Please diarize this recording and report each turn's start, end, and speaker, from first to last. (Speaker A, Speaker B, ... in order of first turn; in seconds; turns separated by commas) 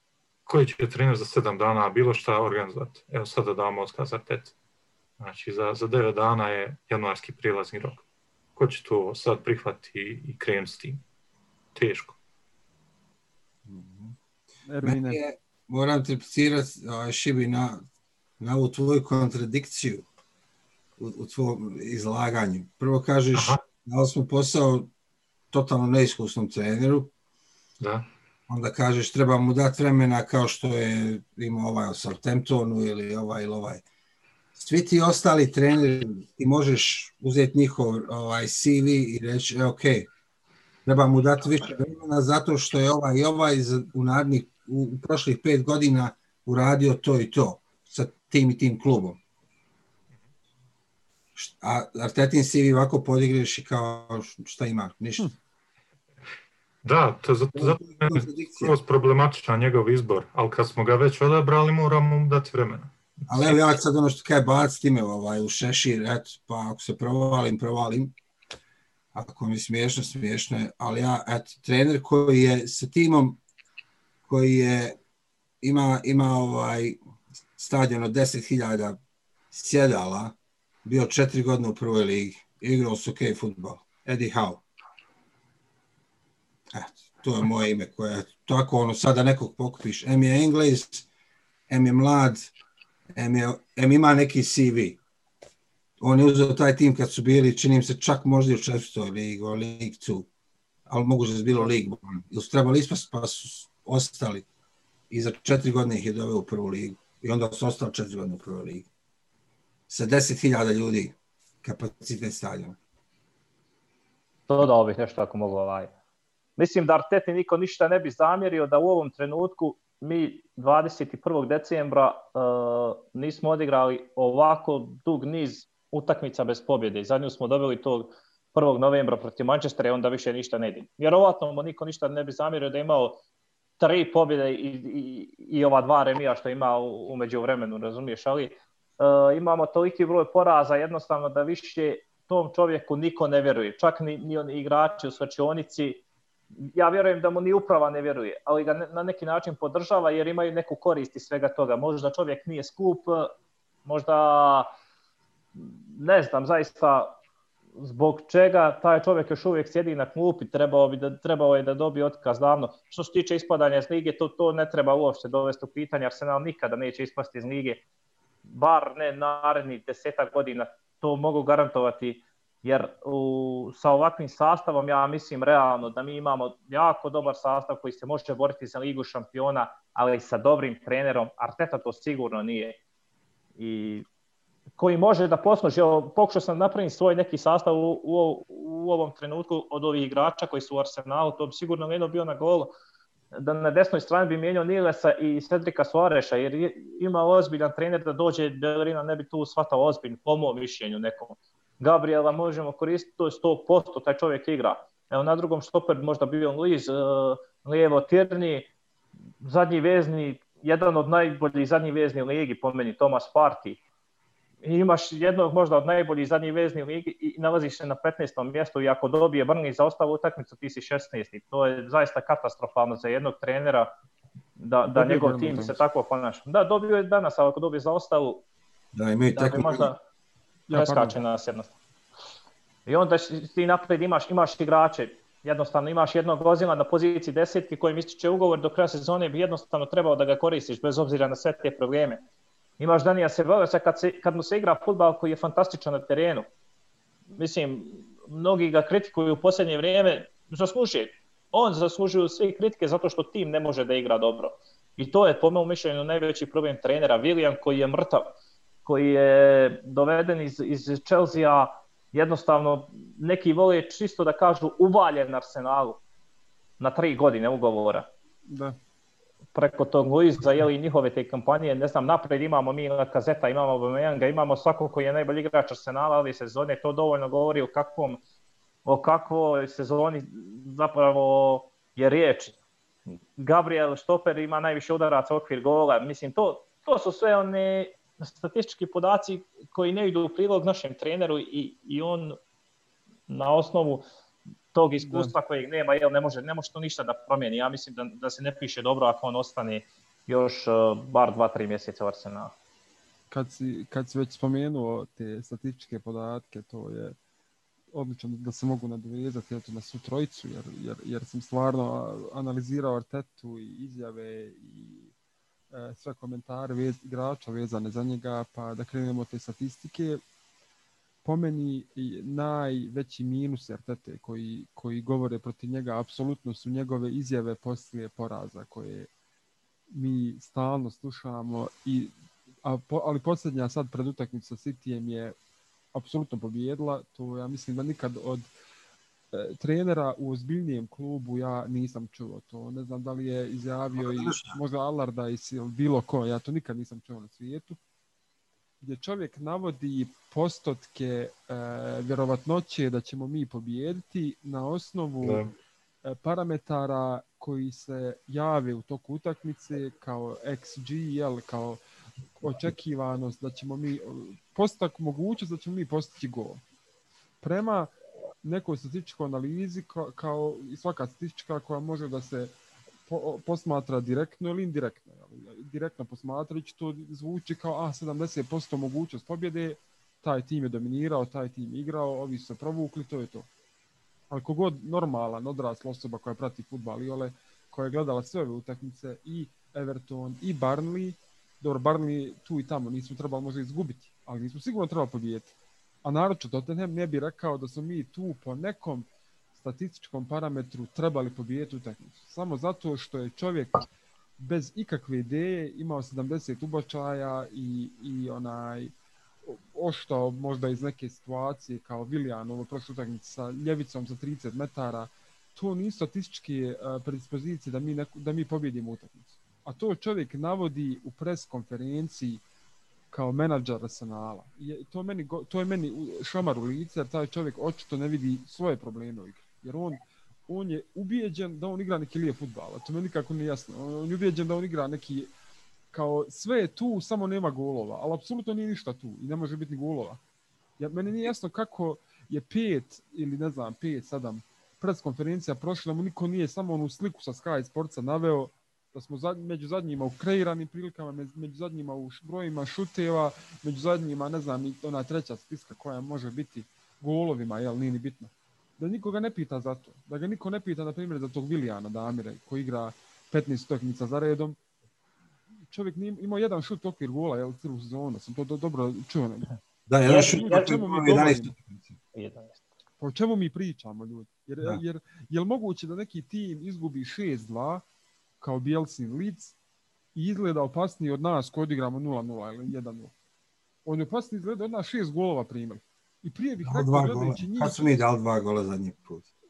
Speaker A: 0.5-4.5, Speaker A: 5.2-8.0, Speaker A: 8.6-11.0, Speaker A: 11.7-12.2, Speaker B: 13.7-14.1, Speaker C: 14.7-15.2, Speaker B: 14.8-17.8, Speaker B: 18.4-20.1, Speaker B: 21.0-24.9, Speaker A: 23.3-23.6, Speaker B: 25.5-27.1, Speaker A: 27.8-28.1, Speaker B: 28.5-33.8, Speaker B: 34.5-40.1, Speaker B: 40.9-49.2, Speaker B: 51.4-55.3, Speaker A: 56.8-63.6, Speaker B: 57.5-58.8, Speaker B: 63.3-68.1, Speaker B: 69.1-73.4, Speaker B: 74.2-75.0, Speaker B: 75.6-77.0, Speaker B: 77.5-79.0, Speaker B: 79.5-84.6, Speaker B: 86.7-91.1, Speaker B: 91.7-92.5, Speaker B: 93.1-95.0, Speaker B: 96.0-100.3, Speaker B: 100.9-104.5, Speaker B: 105.1-108.9, Speaker B: 109.9-112.8, Speaker D: 114.5-115.9, Speaker D: 116.6-133.2, Speaker D: 133.8-146.0, Speaker D: 146.7-153.3, Speaker D: 153.8-154.7, Speaker D: 155.6-157.1, Speaker D: 157.8-167.8, Speaker D: 168.4-182.8, Speaker D: 183.6-184.1, Speaker D: 184.8-192.7, Speaker D: 193.3-208.7, Speaker D: 209.4-213.8, Speaker D: 214.6-223.9, Speaker D: 224.6-228.4, Speaker C: 224.9-225.8, Speaker B: 228.9-229.9, Speaker D: 229.3-230.0, Speaker C: 230.7-231.2, Speaker D: 230.7-231.7, Speaker D: 232.8-242.2, Speaker D: 242.8-246.5, Speaker D: 247.3-258.3, Speaker D: 258.8-266.0, Speaker D: 266.8-268.1, Speaker C: 268.5-268.8, Speaker D: 269.5-278.2, Speaker D: 278.8-282.6, Speaker D: 283.4-292.4, Speaker D: 293.3-294.0, Speaker D: 294.7-302.5, Speaker C: 295.0-295.3, Speaker C: 303.3-307.1, Speaker C: 307.9-315.1, Speaker C: 315.7-320.2, Speaker C: 321.2-329.1, Speaker C: 329.9-335.4, Speaker C: 335.9-338.5, Speaker C: 339.3-347.8, Speaker B: 343.9-344.6, Speaker C: 348.8-355.4, Speaker A: 355.2-355.5, Speaker C: 356.0-361.8, Speaker C: 362.4-366.6, Speaker C: 367.4-367.9, Speaker C: 368.4-372.5, Speaker C: 373.1-383.5, Speaker C: 384.3-403.8, Speaker C: 404.4-408.9, Speaker C: 409.4-422.4, Speaker C: 423.1-435.3, Speaker C: 435.9-440.2, Speaker C: 440.8-464.6, Speaker C: 465.7-469.5, Speaker B: 469.9-471.9, Speaker D: 470.1-470.8, Speaker C: 470.1-471.5, Speaker D: 472.1-472.6, Speaker C: 473.0-477.8, Speaker C: 478.4-479.5, Speaker C: 480.1-483.1, Speaker C: 483.8-487.8, Speaker B: 486.6-489.3